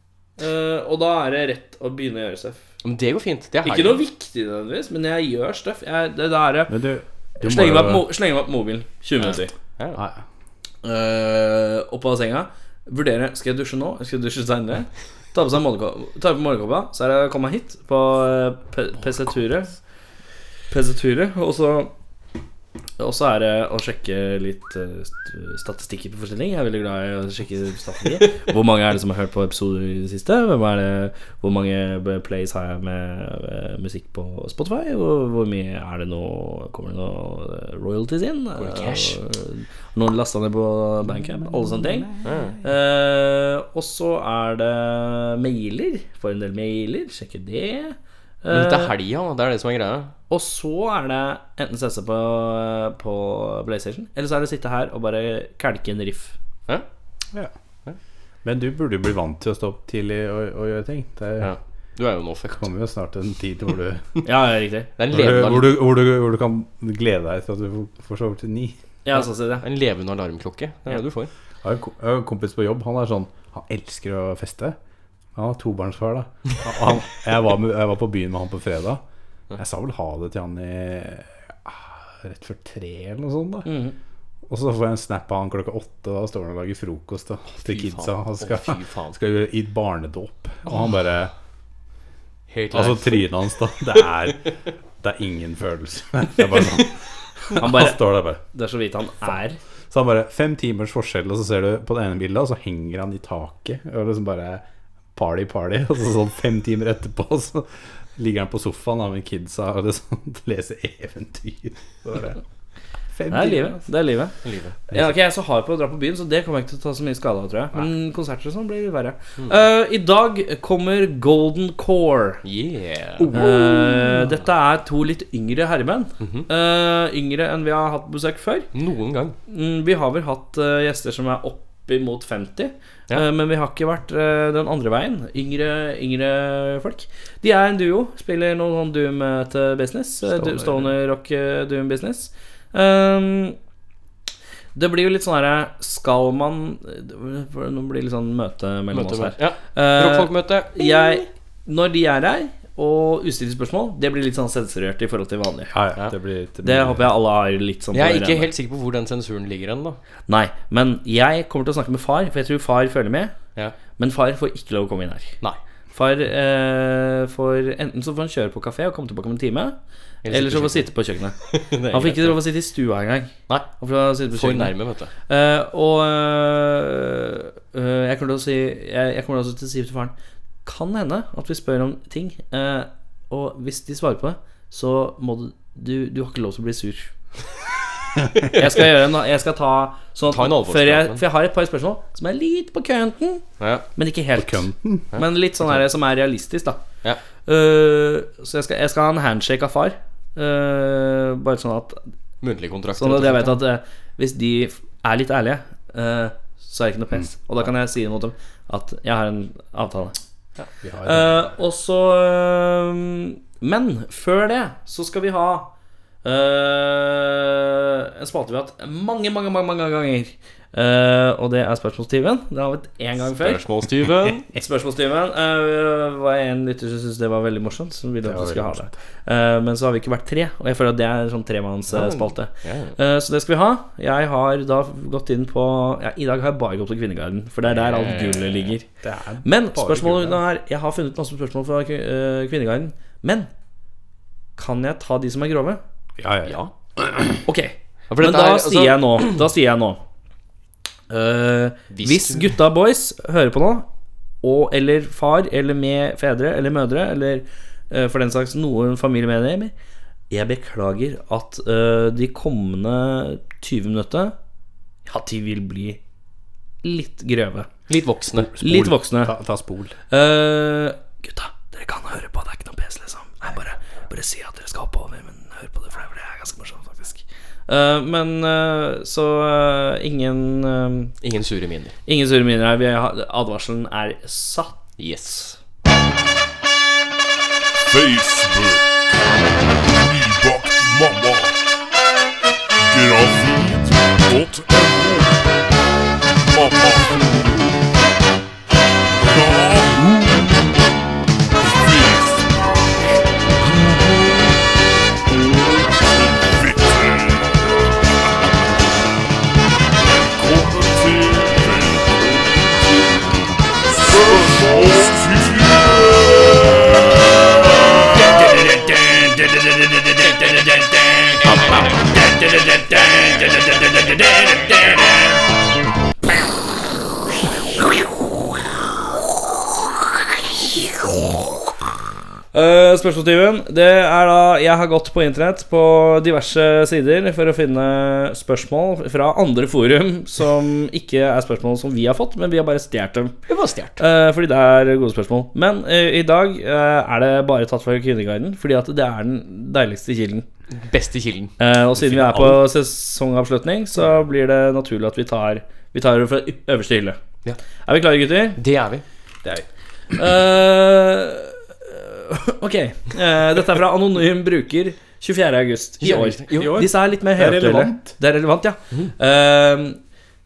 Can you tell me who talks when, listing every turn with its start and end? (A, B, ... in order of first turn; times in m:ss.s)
0:00.4-0:02.6 A
0:02.8-0:04.0 B
0:03.6-0:06.8 A
0:06.7-0:08.1 C
0:07.4-0:09.5 A
0:10.0-0:10.2 C
0:10.8-0:19.8 A
0:20.7-0:21.9 A
0:23.0-0:42.1 A
0:38.6-0:39.2 B
0:41.0-0:42.6 C
0:42.2-0:42.6 B
0:42.6-0:48.9 A
0:48.5-0:50.1 B
0:50.3-0:56.4 A
0:58.4-1:01.5 C
1:01.4-1:02.6 B
1:02.5-1:04.1 C
1:04.2-1:04.9 A
1:05.0-1:05.8 B
1:05.1-1:08.8 C
1:09.0-1:09.6 A
1:09.6-1:11.3 B
1:11.6-1:14.8 C
1:15.4-1:19.0 C
1:19.6-1:23.7 C
1:23.6-1:24.0 A
1:24.5-1:31.3 C
1:27.6-1:29.2 B
1:32.5-1:33.4 B
1:32.7-1:38.4 C
1:37.5-1:39.6 A
1:39.9-1:44.6 C
1:45.2-1:52.4 C
1:53.1-1:53.9 C
1:53.3-1:54.3 A
1:54.4-1:54.8 B
1:54.9-2:02.4 A
2:02.4-2:03.4 B
2:03.2-2:04.3 C
2:03.3-2:08.7 A
2:06.2-2:06.5 B
2:08.7-2:09.4 B
2:09.5-2:23.6 A
2:24.8-2:35.7 A
2:28.9-2:31.3 B
2:35.7-2:37.1 C
2:36.6-2:38.5 A
2:37.9-2:40.0 B
2:40.3-2:43.3 A
2:44.0-2:45.4 A
2:45.9-2:49.8 A
2:50.2-2:50.9 B
2:50.3-2:51.4 A
2:51.4-2:52.4 B
2:51.9-2:54.7 A
2:54.3-2:55.1 B
2:55.3-3:00.1 A
3:00.6-3:07.1 A
3:08.5-3:13.4 A
3:10.3-3:11.2 B
3:13.6-3:13.9 B
3:14.0-3:16.8 A
3:14.4-3:15.2 C
3:17.5-3:22.0 A
3:22.4-3:23.6 B
3:23.0-3:30.2 A
3:30.8-3:31.5 C
3:31.0-3:35.7 A
3:36.2-3:43.6 A
3:43.3-3:44.5 B
3:44.6-3:58.9 A
3:48.2-3:48.9 C
3:51.9-3:53.0 B
3:57.7-3:58.7 B
3:59.0-4:00.4 C
3:59.4-4:03.5 A
4:04.6-4:05.8 A
4:06.2-4:07.3 C
4:06.5-4:06.7 B
4:07.4-4:10.0 A
4:08.1-4:09.3 B
4:11.1-4:13.9 A
4:11.9-4:12.5 B
4:14.4-4:19.7 A
4:20.3-4:24.4 A
4:25.1-4:26.0 A
4:26.8-4:27.7 A
4:27.9-4:28.5 B
4:28.3-4:30.0 C
4:28.6-4:29.3 A
4:30.1-4:41.1 A
4:41.2-4:42.0 B
4:42.1-4:44.8 A
4:45.0-4:45.5 B
4:47.8-4:49.2 D
4:49.7-4:51.6 D
4:52.8-4:55.5 D
4:56.5-4:57.8 D
4:59.3-5:00.7 D
5:01.6-5:03.0 D
5:03.6-5:04.6 D
5:05.8-5:08.2 D
5:10.0-5:13.1 D
5:13.9-5:18.3 D
5:18.3-5:25.4 A
5:20.2-5:20.6 B
5:21.4-5:21.9 B
5:30.7-5:31.6 A
5:32.5-5:43.4 A
5:43.5-5:44.0 B
5:44.0-5:50.5 A
5:50.7-5:51.6 B
5:51.6-5:57.2 A
5:52.0-5:52.6 C
5:57.9-5:58.6 A
5:58.6-5:59.0 B
6:00.2-6:10.0 A
6:06.0-6:06.8 B
6:06.5-6:08.2 C